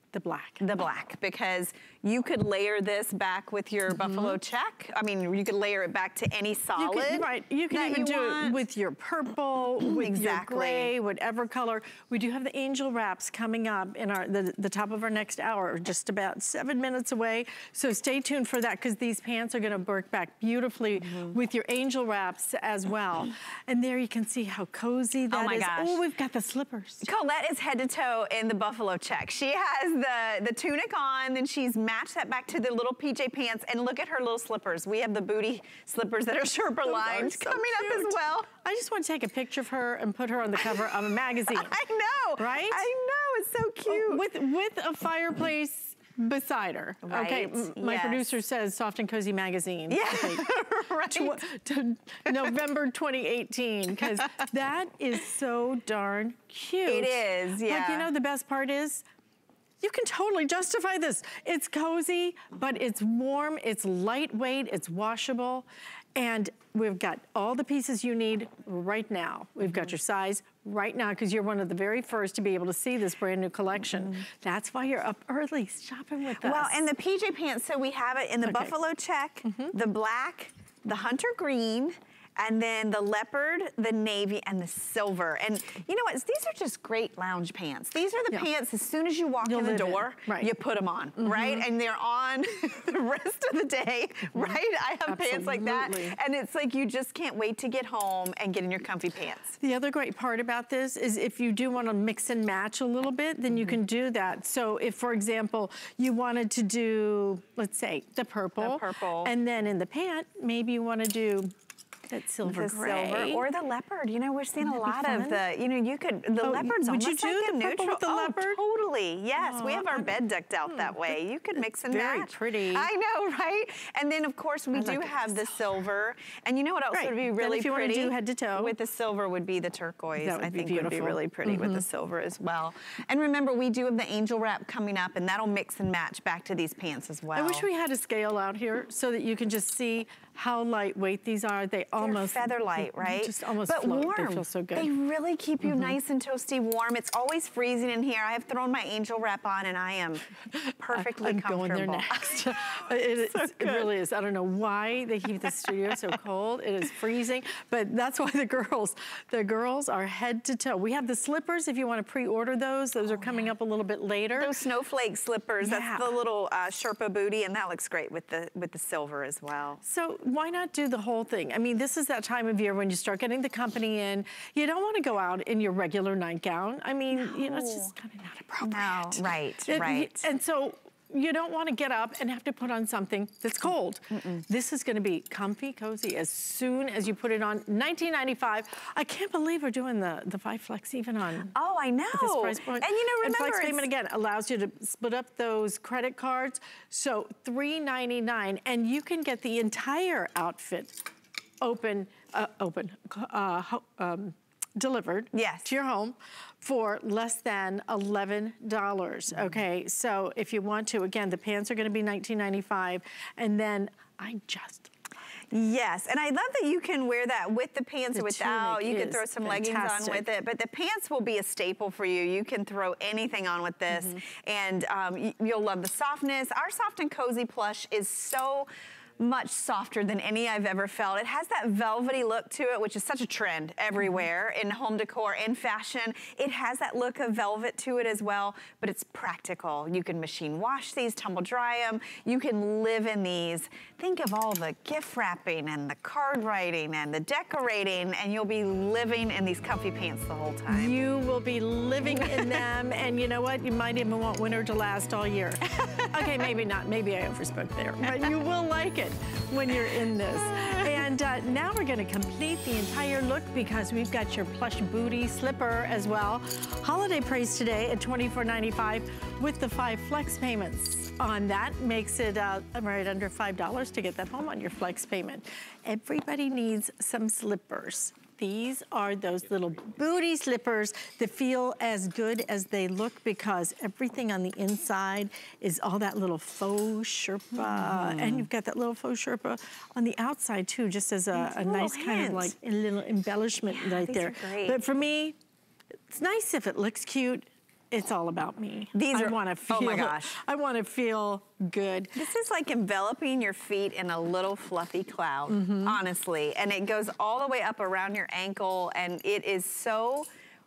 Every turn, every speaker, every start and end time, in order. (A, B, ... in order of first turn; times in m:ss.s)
0:00.1-0:00.6 A
0:00.6-0:08.6 B
0:03.9-0:04.4 A
0:06.8-0:27.1 A
0:09.8-0:10.9 B
0:21.0-0:21.4 B
0:27.0-0:38.5 B
0:36.8-0:41.7 A
0:40.6-0:40.9 B
0:41.5-0:44.2 B
0:42.4-0:42.8 A
0:43.9-0:59.0 A
0:47.0-0:48.4 B
0:49.9-0:51.4 B
0:56.8-0:58.1 B
0:59.8-1:16.8 A
1:09.6-1:09.9 B
1:16.4-1:39.5 B
1:18.4-1:18.8 A
1:19.4-1:19.8 A
1:29.4-1:30.5 A
1:31.2-1:31.6 A
1:34.3-1:36.2 A
1:39.6-1:51.5 A
1:43.5-1:43.8 B
1:48.6-1:49.3 B
1:52.1-1:53.4 A
1:52.4-2:17.6 B
1:54.6-1:55.4 A
1:56.4-1:58.6 A
1:59.4-2:01.2 A
2:01.8-2:02.9 A
2:04.7-2:05.7 A
2:06.9-2:08.8 A
2:10.2-2:11.8 A
2:17.3-2:24.9 A
2:22.0-2:33.9 B
2:25.6-2:26.0 A
2:30.5-2:44.6 A
2:35.4-2:36.0 B
2:43.0-2:43.5 B
2:44.4-2:49.8 B
2:45.6-2:46.2 A
2:49.8-3:11.5 A
2:57.1-2:57.9 B
2:58.6-3:00.3 B
3:04.1-3:04.4 B
3:11.5-3:13.9 B
3:12.1-3:21.0 A
3:21.6-3:34.9 A
3:25.3-3:25.7 B
3:35.5-3:48.7 B
3:38.1-3:40.2 A
3:43.9-3:44.2 A
3:49.2-4:11.0 B
3:54.0-3:54.2 A
4:10.7-4:55.3 A
4:12.1-4:12.6 B
4:47.6-4:48.5 B
4:51.3-4:52.5 B
4:53.7-4:54.8 B
4:56.1-5:02.2 A
4:58.9-5:00.4 B
5:02.2-5:10.3 B
5:05.5-5:06.0 A